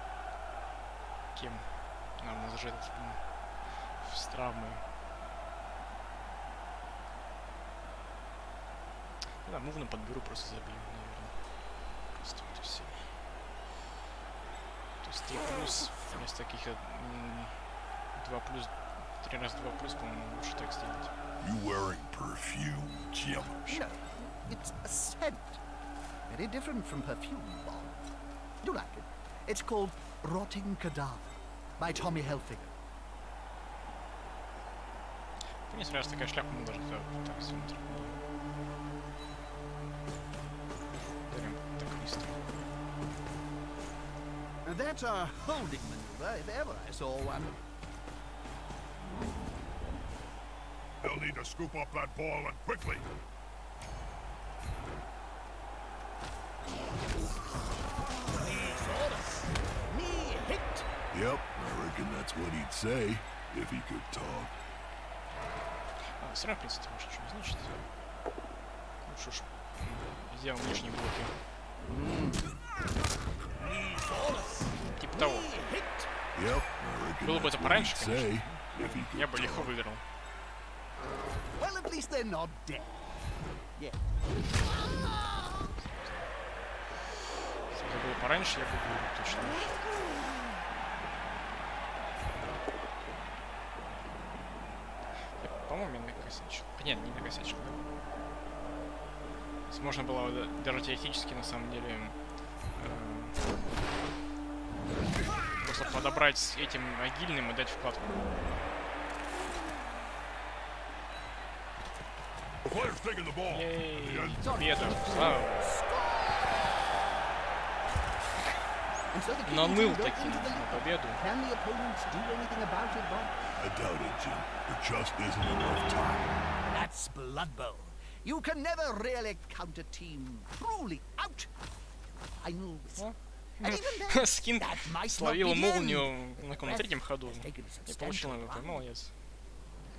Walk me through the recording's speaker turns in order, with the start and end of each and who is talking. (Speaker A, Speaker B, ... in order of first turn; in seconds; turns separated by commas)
Speaker A: 1.3-4.9, Speaker A: 9.4-13.2, Speaker A: 15.0-21.1, Speaker B: 21.4-23.6, Speaker A: 23.1-23.9, Speaker C: 23.7-25.6, Speaker C: 26.3-28.0, Speaker C: 28.6-32.8, Speaker A: 35.7-38.2, Speaker A: 41.3-42.5, Speaker C: 44.6-47.6, Speaker B: 51.0-53.1, Speaker C: 58.1-60.9, Speaker B: 61.1-64.6, Speaker A: 66.2-67.8, Speaker A: 69.0-71.4, Speaker C: 71.8-72.6, Speaker C: 73.5-76.1, Speaker A: 75.0-75.5, Speaker B: 76.3-79.7, Speaker A: 77.2-80.0, Speaker C: 81.6-83.2, Speaker C: 83.8-84.1, Speaker A: 85.6-86.3, Speaker A: 87.7-90.0, Speaker A: 95.4-97.8, Speaker A: 99.7-102.2, Speaker A: 102.8-103.5, Speaker A: 105.6-108.4, Speaker B: 112.6-114.5, Speaker A: 113.5-115.8, Speaker C: 114.4-116.8, Speaker C: 119.1-123.4, Speaker A: 119.5-121.2, Speaker B: 123.6-126.3, Speaker C: 126.6-131.5, Speaker C: 132.2-138.8, Speaker A: 133.0-139.1